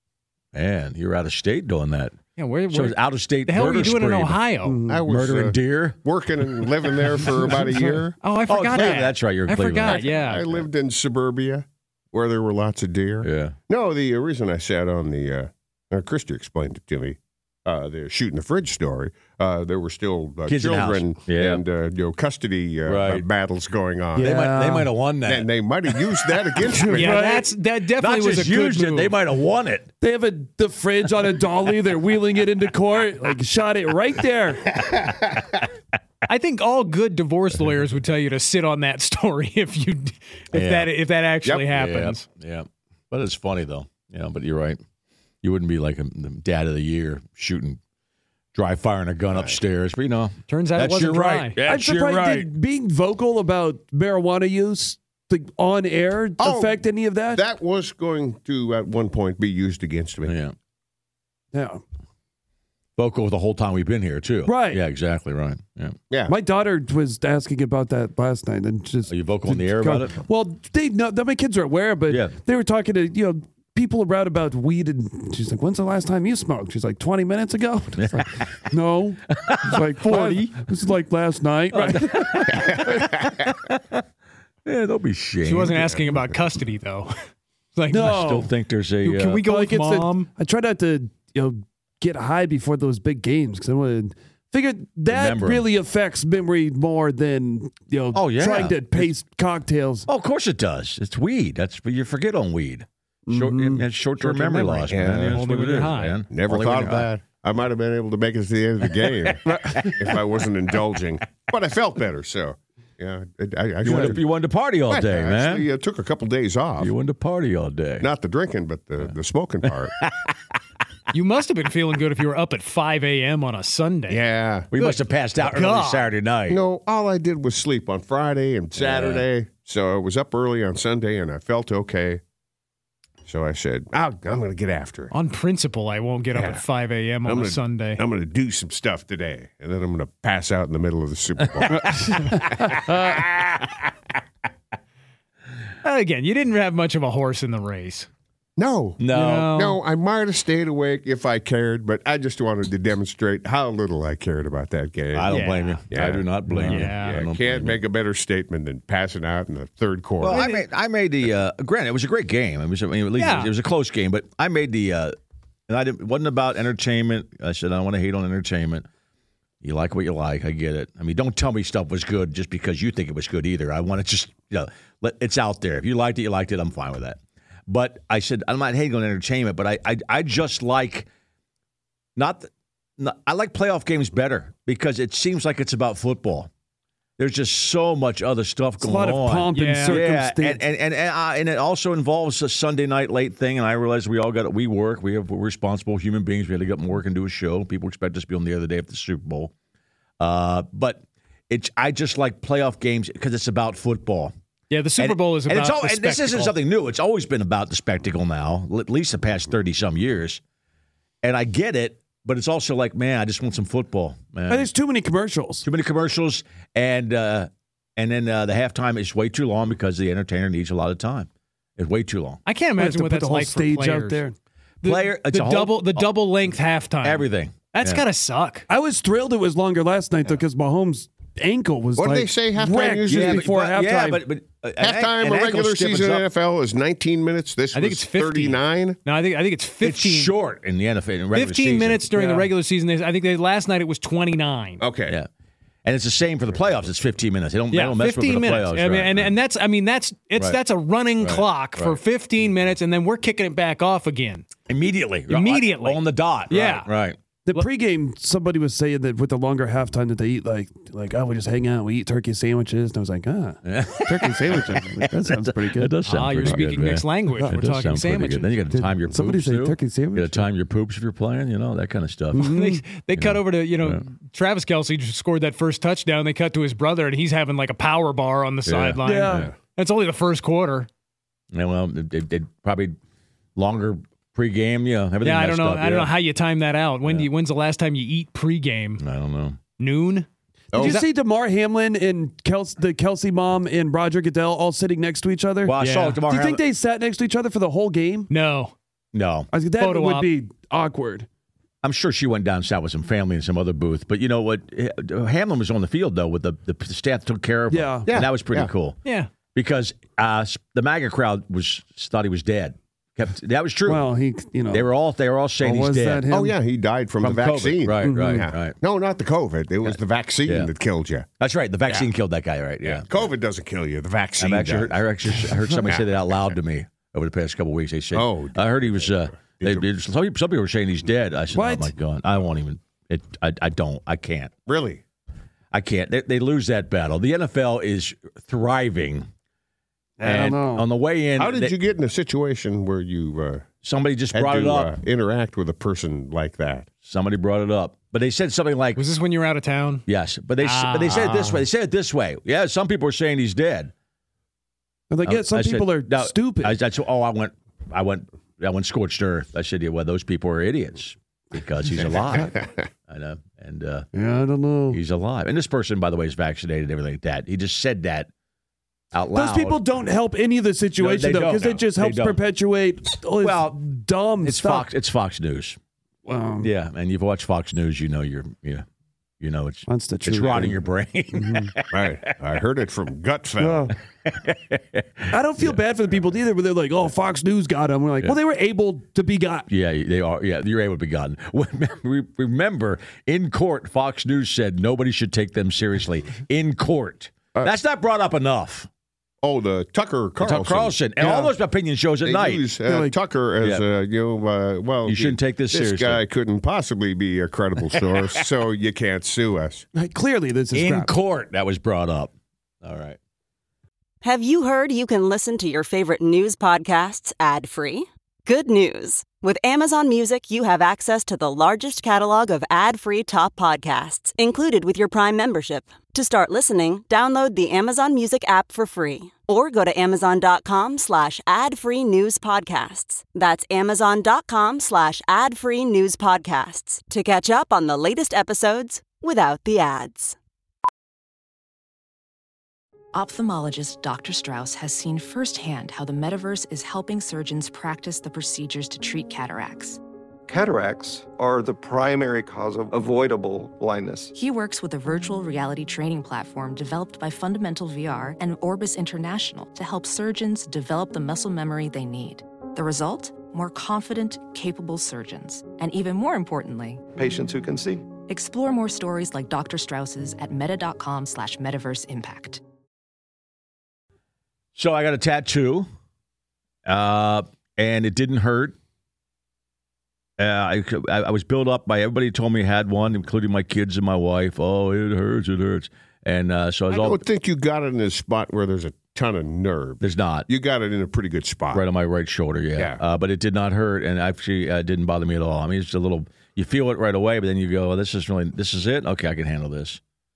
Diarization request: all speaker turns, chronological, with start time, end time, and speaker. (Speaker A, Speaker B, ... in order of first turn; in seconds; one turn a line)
Speaker A: 0.5-2.2
Speaker B: 2.4-4.8
Speaker A: 2.7-4.4
Speaker C: 4.6-5.0
Speaker D: 4.9-8.2
Speaker A: 5.0-6.0
Speaker B: 8.2-10.4
Speaker A: 8.5-10.1
Speaker D: 9.8-24.4
Speaker A: 13.2-13.6
Speaker A: 20.5-21.6
Speaker A: 22.9-23.2
Speaker C: 24.1-24.9
Speaker A: 24.2-26.0
Speaker D: 25.2-27.2
Speaker C: 26.7-27.5
Speaker B: 26.9-29.1
Speaker A: 28.0-29.9
Speaker C: 30.0-34.7
Speaker B: 36.3-42.2
Speaker A: 40.5-40.9
Speaker A: 41.6-44.8
Speaker A: 45.4-47.8
Speaker A: 48.5-52.5
Speaker B: 50.5-51.6
Speaker C: 51.7-57.4
Speaker D: 56.4-56.8
Speaker D: 57.3-60.3
Speaker A: 60.2-60.5
Speaker C: 61.5-61.8
Speaker A: 63.0-66.0
Speaker C: 64.4-64.8
Speaker C: 66.3-83.0
Speaker A: 69.1-70.2
Speaker A: 72.1-72.3
Speaker A: 78.0-78.6
Speaker A: 79.3-79.8
Speaker B: 80.0-80.5
Speaker A: 81.7-84.0
Speaker D: 82.5-83.5
Speaker A: 84.6-86.0
Speaker B: 85.4-87.1
Speaker B: 87.7-88.4
Speaker C: 87.9-88.5
Speaker A: 88.0-89.4
Speaker B: 89.0-90.3
Speaker C: 89.4-100.1
Speaker A: 95.1-95.7
Speaker A: 98.1-99.1
Speaker A: 100.1-107.1
Speaker C: 103.3-103.8
Speaker B: 104.2-106.2
Speaker D: 104.9-105.4
Speaker D: 106.3-114.2
Speaker C: 109.5-109.9
Speaker A: 113.8-115.7
Speaker D: 114.9-116.9
Speaker A: 116.8-118.1
Speaker D: 118.0-119.9
Speaker A: 120.0-120.3
Speaker B: 121.1-124.2
Speaker D: 124.1-124.7
Speaker A: 124.7-126.6
Speaker B: 124.7-126.1
Speaker D: 126.5-132.2
Speaker A: 128.8-129.2
Speaker D: 133.2-135.1
Speaker B: 135.1-138.0
Speaker D: 136.3-136.6
Speaker D: 137.2-142.4
Speaker A: 141.6-143.7
Speaker C: 141.7-142.9
Speaker B: 145.8-148.1
Speaker D: 148.6-149.0
Speaker A: 149.0-149.5
Speaker B: 149.1-149.8
Speaker D: 149.5-155.3
Speaker A: 155.1-157.8
Speaker B: 155.3-155.8
Speaker D: 155.9-160.4
Speaker C: 156.5-156.7
Speaker B: 156.7-157.2
Speaker A: 160.2-165.1
Speaker B: 160.3-160.6
Speaker B: 163.2-163.5
Speaker A: 165.7-168.8
Speaker A: 169.6-181.1
Speaker A: 182.2-186.5
Speaker A: 187.2-199.5
Speaker C: 188.8-190.6
Speaker B: 189.5-190.0
Speaker A: 200.2-204.3
Speaker B: 204.7-206.6
Speaker A: 205.0-210.4
Speaker A: 211.2-214.7
Speaker C: 214.5-215.7
Speaker A: 215.6-222.4
Speaker B: 222.4-224.2
Speaker C: 222.8-224.3
Speaker B: 224.8-228.7
Speaker A: 224.8-226.1
Speaker A: 227.0-228.0
Speaker C: 228.7-234.2
Speaker D: 232.0-233.5
Speaker A: 233.1-236.2
Speaker D: 234.8-239.0
Speaker B: 237.7-240.3
Speaker A: 239.8-242.1
Speaker B: 241.3-244.8
Speaker C: 242.1-242.5
Speaker D: 244.8-245.2
Speaker A: 245.8-249.3
Speaker B: 247.7-254.5
Speaker A: 251.2-252.0
Speaker A: 254.7-257.2
Speaker B: 255.3-256.9
Speaker C: 257.5-266.6
Speaker A: 263.6-272.5
Speaker B: 266.1-268.5
Speaker C: 268.7-270.5
Speaker C: 272.3-272.8
Speaker B: 272.4-280.9
Speaker A: 273.1-274.0
Speaker A: 278.6-279.5
Speaker C: 279.0-279.5
Speaker A: 281.5-282.9
Speaker A: 283.6-286.1
Speaker B: 285.2-289.0
Speaker A: 289.0-289.6
Speaker B: 289.8-290.3
Speaker D: 290.7-291.0
Speaker C: 290.7-298.3
Speaker B: 290.8-291.0
Speaker A: 295.6-296.6
Speaker B: 295.8-296.2
Speaker B: 298.3-298.7
Speaker A: 299.1-299.5
Speaker C: 299.5-301.3
Speaker B: 299.8-300.3
Speaker A: 301.8-309.0
Speaker C: 307.7-308.1
Speaker D: 308.1-308.7
Speaker B: 309.0-309.3
Speaker A: 309.5-314.1
Speaker C: 313.9-314.9
Speaker A: 314.7-316.3
Speaker C: 315.6-316.5
Speaker D: 316.3-321.3
Speaker A: 317.2-318.8
Speaker C: 318.0-318.5
Speaker A: 321.4-323.1
Speaker D: 322.8-325.0
Speaker A: 324.4-334.5
Speaker D: 328.1-329.9
Speaker C: 331.5-331.9
Speaker D: 334.7-335.0
Speaker A: 335.7-339.3
Speaker C: 340.2-340.9
Speaker A: 340.2-341.7
Speaker D: 341.4-343.7
Speaker A: 343.8-344.9
Speaker D: 344.3-346.9
Speaker A: 347.0-349.0
Speaker B: 348.9-350.0
Speaker A: 350.1-353.9
Speaker B: 350.6-351.3
Speaker D: 351.1-351.6
Speaker C: 355.1-356.8
Speaker A: 355.2-364.1
Speaker D: 362.0-362.8
Speaker C: 364.1-365.0
Speaker A: 364.9-368.3
Speaker A: 369.1-369.8
Speaker C: 369.3-374.9
Speaker A: 371.0-372.4
Speaker A: 373.4-373.8
Speaker A: 374.4-375.8
Speaker C: 376.2-376.7
Speaker A: 376.6-378.8
Speaker A: 379.4-382.3
Speaker C: 379.9-380.8
Speaker C: 381.3-381.7
Speaker D: 381.9-383.9
Speaker C: 383.6-383.9
Speaker A: 384.2-385.8
Speaker C: 385.3-389.7
Speaker A: 389.7-398.9
Speaker D: 399.4-401.5
Speaker A: 400.4-402.6
Speaker D: 402.2-409.8
Speaker C: 402.9-403.1
Speaker A: 405.1-406.2
Speaker C: 409.9-411.1
Speaker A: 410.7-413.2
Speaker E: 414.2-440.4
Speaker F: 443.1-450.0
Speaker G: 450.5-454.3
Speaker F: 454.3-467.0
Speaker G: 467.1-468.1
Speaker F: 468.3-472.6
Speaker A: 474.7-475.9
Speaker A: 476.9-478.8
Speaker A: 480.4-487.2
Speaker D: 486.9-491.8
Speaker A: 490.0-490.5
Speaker A: 491.7-500.0